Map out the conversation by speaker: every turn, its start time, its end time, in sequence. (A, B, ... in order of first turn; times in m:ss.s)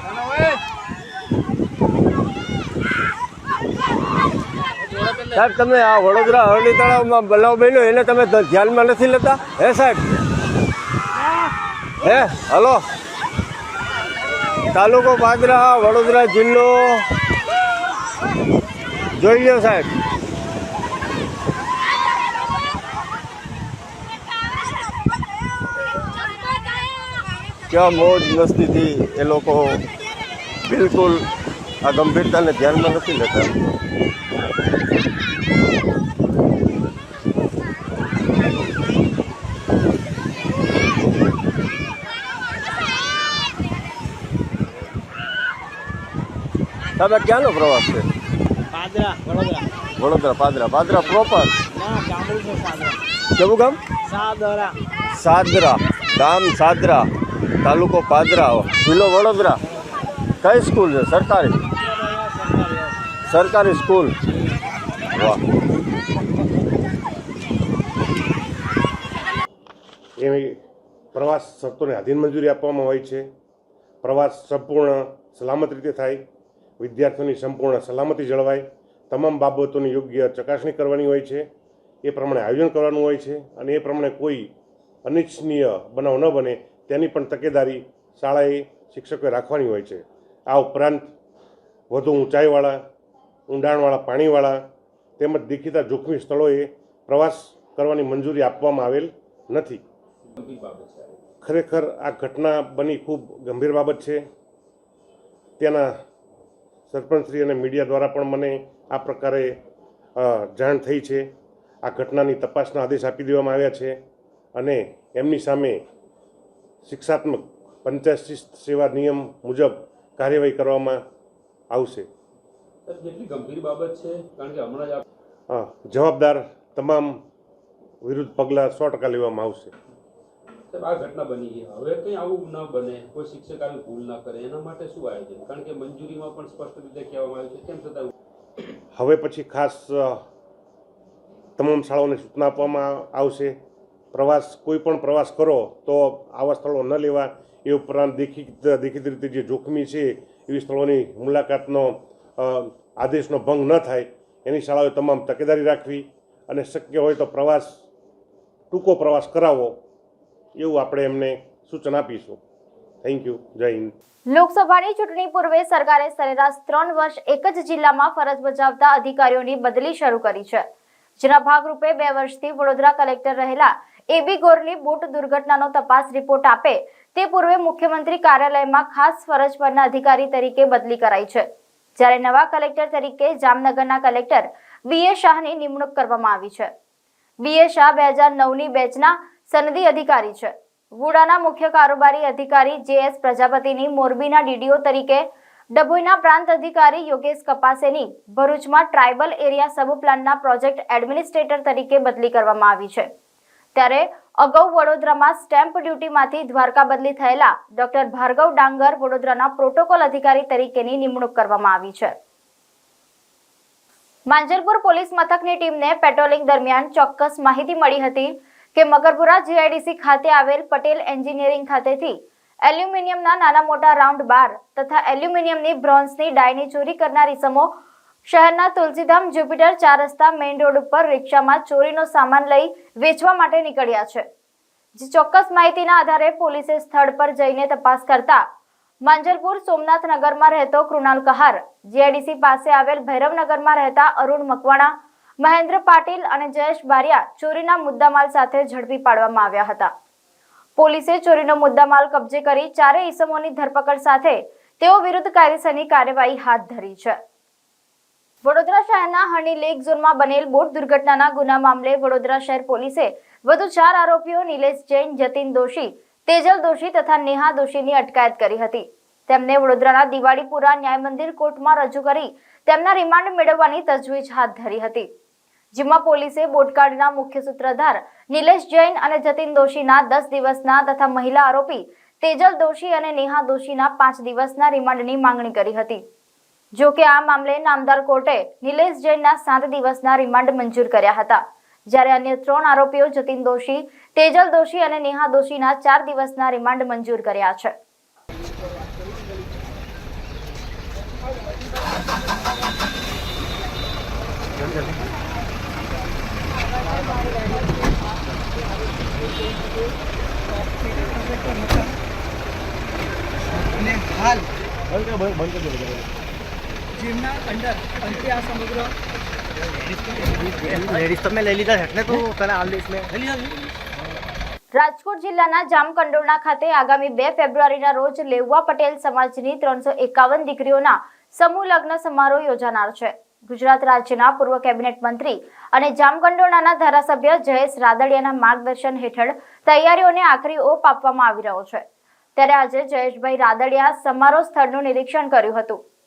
0:05.3-0:10.0 A
0:12.0-0:12.8 A
0:14.7-0:17.1 A
0:19.2-0:19.9 A
0:27.7-0:29.8 A
0:30.7-0:31.2 A
0:31.8-0:33.5 A
0:47.0-0:48.1 A
0:48.7-0:49.6 B
0:50.0-0:51.5 A
0:51.8-0:53.0 B
0:53.4-0:53.8 A
0:54.1-0:54.8 B
0:55.1-0:57.1 A
0:57.6-0:59.6 A
1:00.4-1:01.6 A
1:02.0-1:02.9 B
1:03.3-1:04.1 A
1:05.1-1:05.4 A
1:10.2-1:10.6 C
1:11.1-1:13.3 C
1:14.0-1:16.2 C
1:16.8-1:21.5 C
1:22.0-1:24.5 C
1:25.0-1:31.1 C
1:31.9-1:32.8 C
1:33.5-1:34.6 C
1:35.2-1:39.8 C
1:40.4-1:41.2 D
1:41.4-1:44.2 C
1:45.6-1:46.0 C
1:46.9-1:49.6 C
1:50.2-1:51.3 C
1:51.8-1:54.0 C
1:54.6-1:55.8 C
1:56.8-2:01.0 C
2:01.7-2:02.1 C
2:02.9-2:05.0 D
2:05.5-2:07.2 C
2:08.0-2:09.7 C
2:10.7-2:18.1 D
2:19.0-2:20.2 C
2:21.6-2:23.6 C
2:24.1-2:37.8 C
2:38.7-2:39.8 C
2:40.6-2:42.4 C
2:43.0-2:43.9 C
2:44.3-2:50.6 E
2:51.2-3:01.4 E
3:02.0-3:06.7 E
3:07.4-3:23.1 E
3:23.8-3:32.1 E
3:34.3-3:47.7 E
3:48.3-3:54.2 E
3:55.0-3:58.4 E
3:59.0-4:09.9 E
4:10.8-4:17.2 E
4:18.4-4:35.1 E
4:35.7-4:46.0 E
4:46.8-4:57.7 E
5:13.8-5:14.4 F
5:15.0-5:16.0 G
5:17.0-5:17.8 F
5:18.3-5:18.9 F
5:20.4-5:23.3 G
5:24.8-5:41.8 E
5:42.4-5:45.8 E